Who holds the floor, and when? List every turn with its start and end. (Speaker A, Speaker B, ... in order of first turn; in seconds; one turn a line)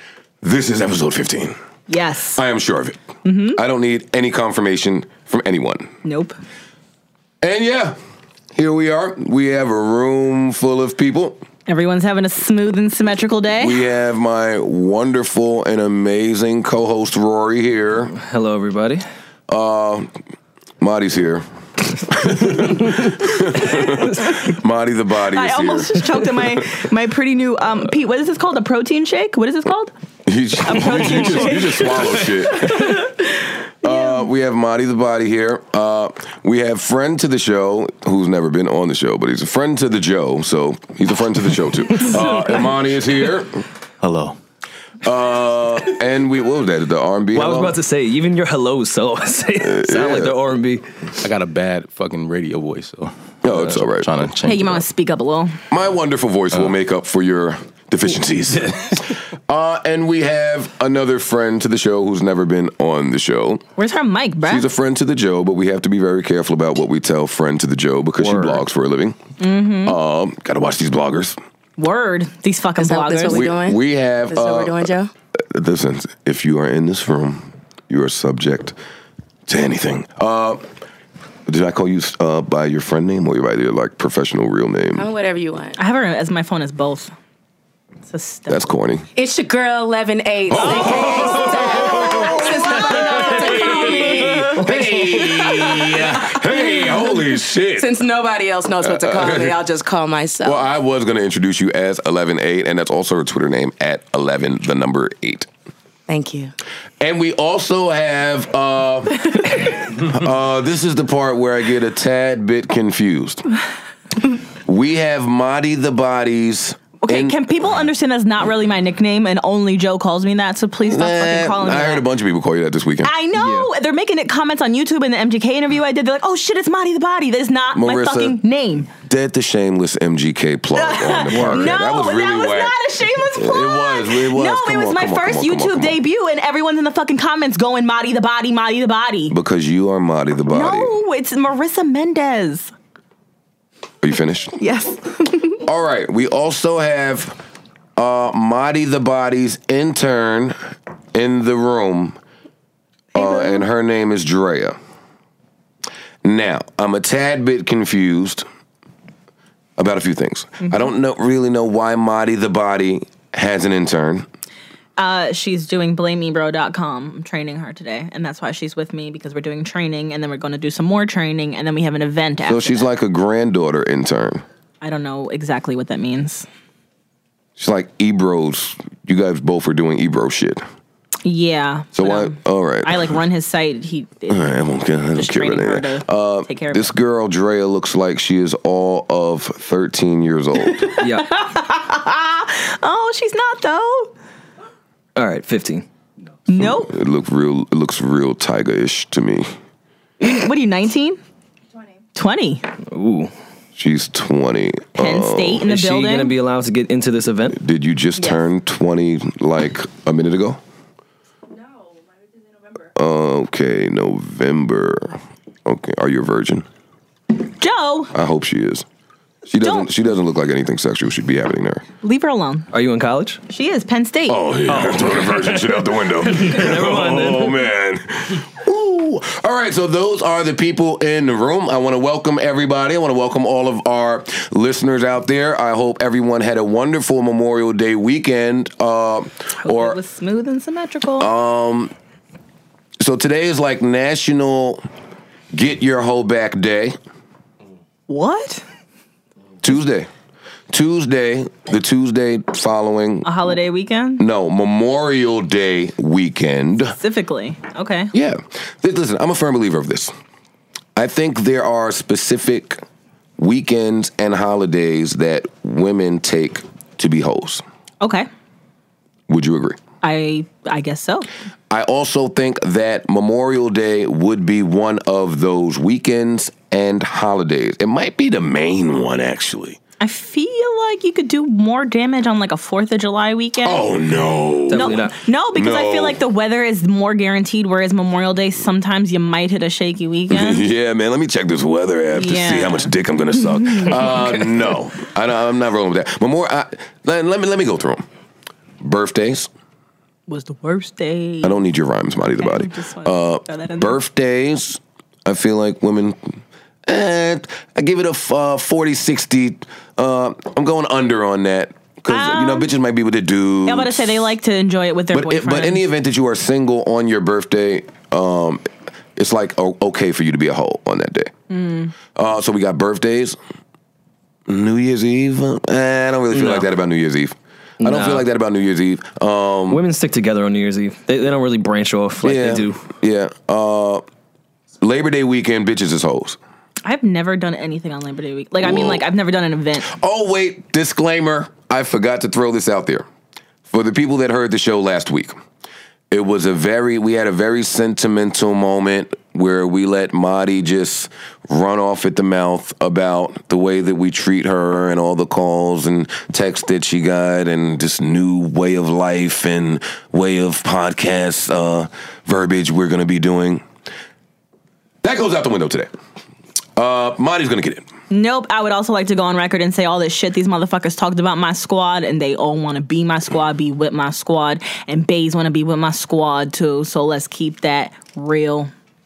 Speaker A: 0.4-1.6
Speaker B: 1.9-2.4
Speaker A: 2.4-3.0
Speaker B: 3.2-3.6
Speaker A: 3.5-5.9
Speaker B: 6.0-6.4
Speaker A: 7.4-8.0
Speaker A: 8.5-11.4
Speaker B: 11.7-13.8
Speaker A: 13.6-18.1
Speaker C: 18.2-19.0
Speaker A: 19.5-20.1
Speaker A: 20.8-21.4
Speaker A: 22.1-26.3
Speaker B: 25.3-29.9
Speaker A: 30.2-32.9
Speaker B: 30.6-34.2
Speaker A: 33.8-43.6
Speaker C: 42.2-42.5
Speaker D: 44.0-44.4
Speaker A: 45.0-47.8
Speaker C: 47.3-50.9
Speaker A: 49.6-50.4
Speaker D: 51.2-54.9
Speaker A: 53.4-54.1
Speaker B: 54.4-55.6
Speaker A: 55.7-63.6
Speaker B: 63.8-64.7
Speaker A: 64.5-69.2
Speaker C: 68.2-68.6
Speaker B: 69.4-69.9
Speaker A: 69.8-71.4
Speaker B: 71.8-73.5
Speaker E: 72.8-75.1
Speaker A: 73.3-78.8
Speaker A: 79.5-80.6
Speaker A: 81.5-85.1
Speaker E: 85.0-85.8
Speaker B: 85.8-87.1
Speaker B: 88.1-88.6
Speaker A: 88.5-89.1
Speaker E: 89.1-97.0
Speaker A: 90.5-98.0
Speaker E: 97.8-100.7
Speaker A: 98.8-99.6
Speaker A: 100.4-105.5
Speaker E: 106.1-106.5
Speaker A: 107.0-113.5
Speaker A: 114.6-117.4
Speaker B: 117.0-122.0
Speaker A: 120.8-123.1
Speaker B: 123.0-128.9
Speaker C: 123.3-123.7
Speaker A: 127.7-128.4
Speaker A: 129.1-132.8
Speaker B: 130.7-139.3
Speaker C: 131.3-131.8
Speaker A: 133.3-136.0
Speaker A: 139.3-140.9
Speaker B: 140.5-142.7
Speaker A: 144.0-144.6
Speaker B: 144.6-145.6
Speaker A: 145.6-147.4
Speaker A: 148.0-150.6
Speaker A: 151.1-152.2
Speaker A: 153.2-154.8
Speaker B: 153.2-153.6
Speaker A: 156.2-158.4
Speaker A: 159.8-164.3
Speaker B: 165.0-172.9
Speaker A: 172.4-174.4
Speaker B: 174.8-176.5
Speaker A: 177.6-180.6
Speaker B: 181.2-184.6
Speaker A: 181.9-183.1
Speaker A: 184.3-190.9
Speaker B: 185.2-186.9
Speaker B: 190.7-194.1
Speaker C: 191.0-191.3
Speaker C: 195.2-195.9
Speaker B: 196.5-196.9
Speaker A: 196.6-199.5
Speaker B: 200.2-201.2
Speaker B: 202.2-202.7
Speaker C: 202.9-203.3
Speaker A: 203.8-205.7
Speaker B: 205.0-206.3
Speaker C: 205.7-207.6
Speaker A: 207.5-210.6
Speaker A: 212.9-216.7
Speaker B: 217.6-218.1
Speaker A: 218.1-218.8
Speaker A: 219.5-221.8
Speaker B: 219.6-219.9
Speaker B: 222.0-222.7
Speaker C: 222.7-223.4
Speaker B: 223.5-224.4
Speaker A: 224.3-240.0
Speaker C: 224.7-227.6
Speaker B: 239.6-241.3
Speaker A: 241.2-241.9
Speaker A: 243.0-244.8
Speaker A: 245.5-247.0
Speaker B: 248.1-248.6
Speaker A: 249.6-250.1
Speaker A: 250.7-253.3
Speaker B: 253.2-254.2
Speaker A: 254.2-256.9
Speaker B: 257.0-258.1
Speaker A: 258.1-260.1
Speaker A: 260.9-262.8
Speaker A: 263.4-267.6
Speaker B: 268.0-268.3
Speaker A: 269.3-269.8
Speaker B: 270.0-271.3
Speaker A: 271.7-279.8
Speaker B: 280.0-283.9
Speaker A: 283.6-286.2
Speaker C: 284.7-285.1
Speaker B: 284.7-290.6
Speaker A: 290.3-298.0
Speaker B: 292.1-292.9
Speaker B: 293.7-294.4
Speaker A: 298.8-299.5
Speaker B: 300.3-301.6
Speaker A: 301.4-306.3
Speaker B: 302.4-303.9
Speaker A: 306.9-314.2
Speaker B: 312.1-312.7
Speaker B: 313.6-315.8
Speaker A: 315.1-321.3
Speaker B: 321.5-321.9
Speaker A: 322.1-323.4
Speaker A: 324.5-329.8
Speaker C: 326.3-326.7
Speaker C: 327.8-328.3
Speaker C: 329.7-332.8
Speaker A: 332.2-334.0
Speaker A: 334.8-336.4
Speaker B: 336.8-339.9
Speaker A: 338.6-339.0
Speaker A: 339.9-343.1
Speaker A: 343.7-345.4
Speaker A: 346.1-363.6
Speaker A: 365.0-365.9
Speaker A: 366.8-367.9
Speaker B: 368.1-378.7